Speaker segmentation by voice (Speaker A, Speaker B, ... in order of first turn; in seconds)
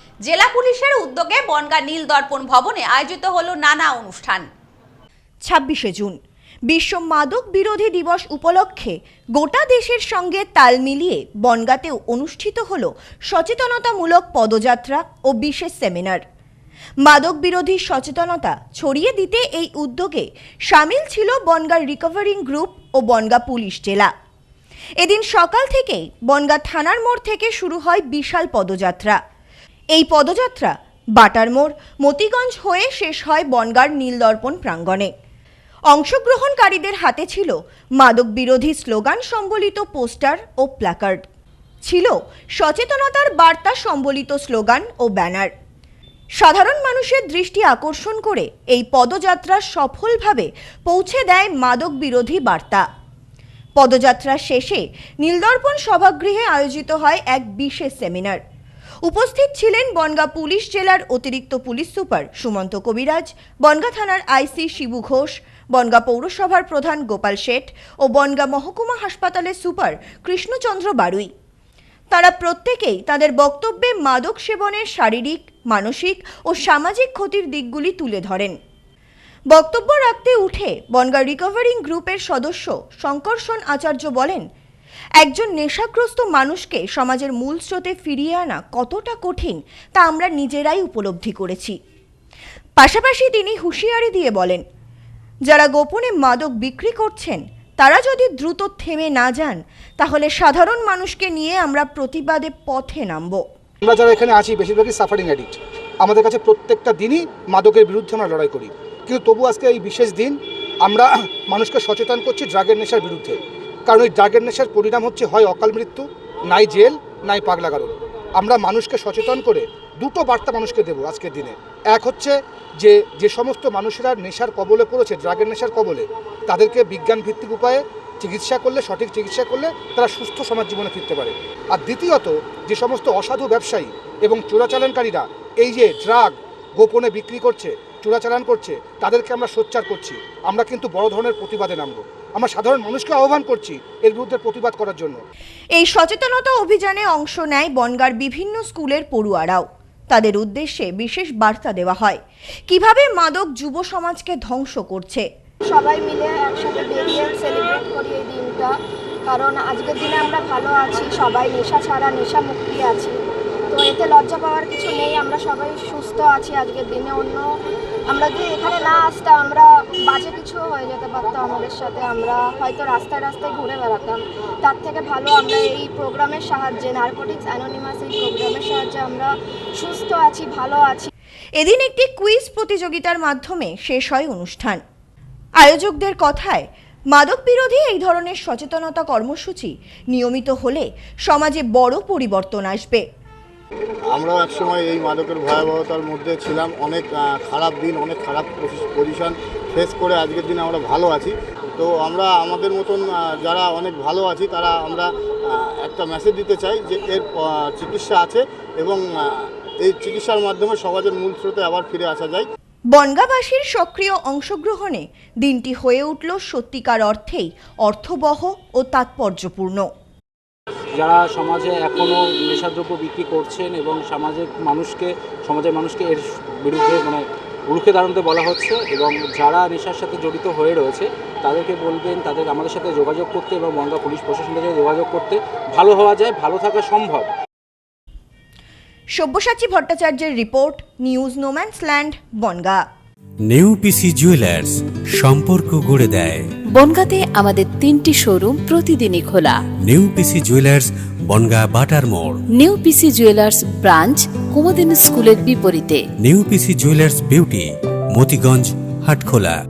Speaker A: 0.2-4.5
Speaker B: 5.5-16.2, 17.0-24.1, 25.0-29.2, 29.9-35.1, 35.9-41.2, 41.8-45.5, 46.4-52.8, 53.8-58.4, 59.0-71.3, 72.1-78.5, 79.5-84.4, 85.2-91.8, 92.8-94.6, 95.5-103.4, 145.8-155.2, 181.6-184.8, 185.6-193.0, 212.9-219.9, 239.2-242.8
Speaker C: 103.8-145.2
Speaker D: 155.7-158.7, 159.2-163.2, 163.7-167.5, 168.1-181.1
Speaker E: 194.1-212.5
Speaker F: 221.0-237.3
Speaker G: 243.4-246.5, 249.8-252.4, 256.2-259.6
Speaker H: 246.7-249.6, 252.5-256.0